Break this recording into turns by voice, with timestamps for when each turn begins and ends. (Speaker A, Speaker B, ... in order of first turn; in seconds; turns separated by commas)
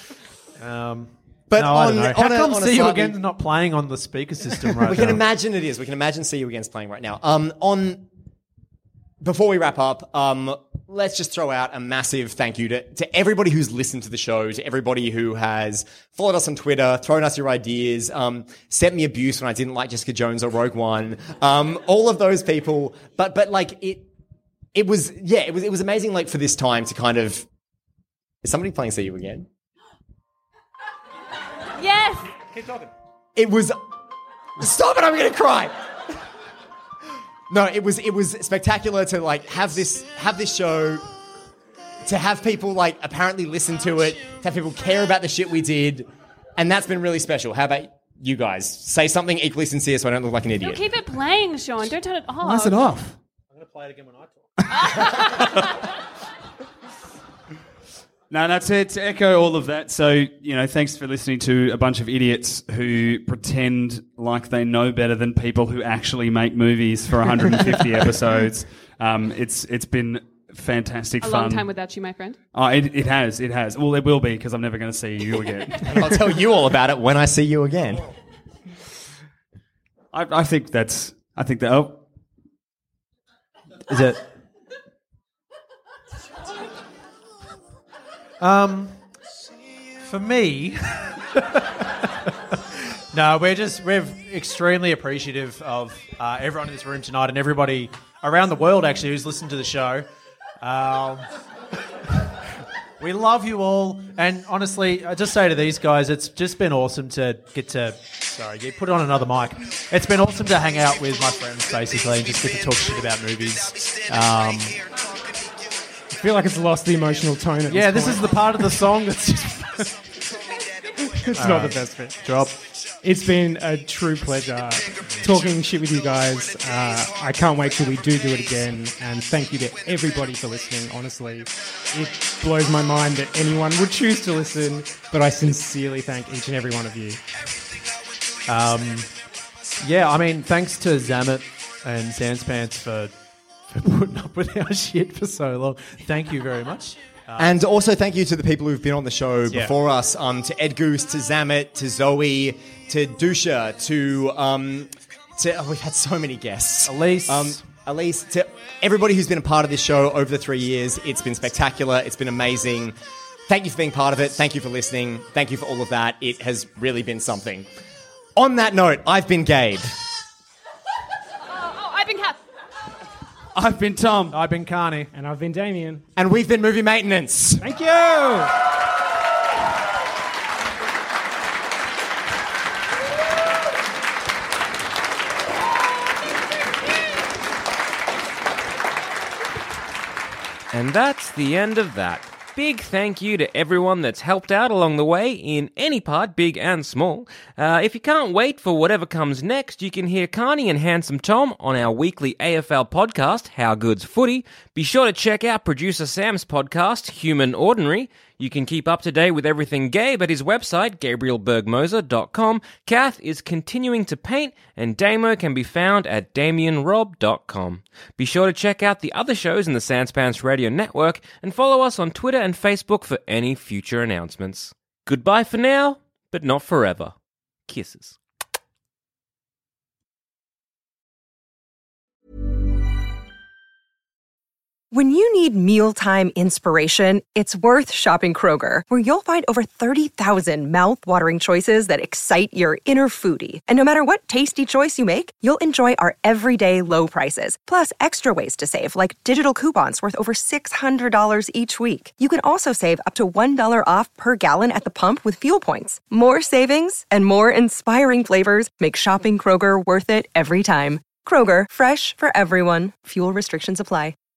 Speaker A: 0.6-5.2, Speaker B: 1.5-3.2, Speaker B: 4.7-8.1, Speaker B: 9.2-24.1, Speaker B: 24.7-27.5, Speaker B: 28.4-29.5, Speaker C: 31.8-32.4, Speaker B: 33.4-33.8, Speaker B: 34.6-35.8, Speaker B: 37.5-41.0, Speaker B: 42.0-50.9, Speaker C: 50.6-52.8, Speaker D: 52.4-53.2, Speaker A: 53.5-54.5, Speaker D: 54.9-55.4, Speaker C: 54.9-55.5, Speaker D: 58.3-71.7, Speaker C: 71.2-72.4, Speaker D: 72.5-75.9, Speaker B: 75.8-78.1, Speaker D: 80.1-82.0, Speaker A: 83.9-84.3, Speaker A: 88.4-88.9, Speaker A: 90.0-100.1, Speaker A: 100.6-101.3, Speaker A: 103.0-114.8, Speaker E: 116.1-118.6, Speaker A: 117.7-120.0, Speaker E: 121.0-122.2, Speaker A: 121.4-122.6, Speaker E: 123.0-137.2, Speaker A: 138.5-139.1, Speaker A: 139.8-143.1, Speaker A: 143.7-147.6, Speaker B: 147.4-162.9, Speaker A: 149.5-149.8, Speaker A: 156.9-157.6, Speaker B: 163.5-167.7, Speaker B: 168.4-169.9, Speaker C: 171.4-172.4, Speaker D: 173.6-174.4, Speaker A: 174.3-175.1, Speaker E: 175.1-176.1, Speaker B: 176.2-177.7, Speaker E: 177.6-178.6, Speaker F: 190.7-227.1, Speaker F: 227.7-228.2, Speaker G: 234.9-264.1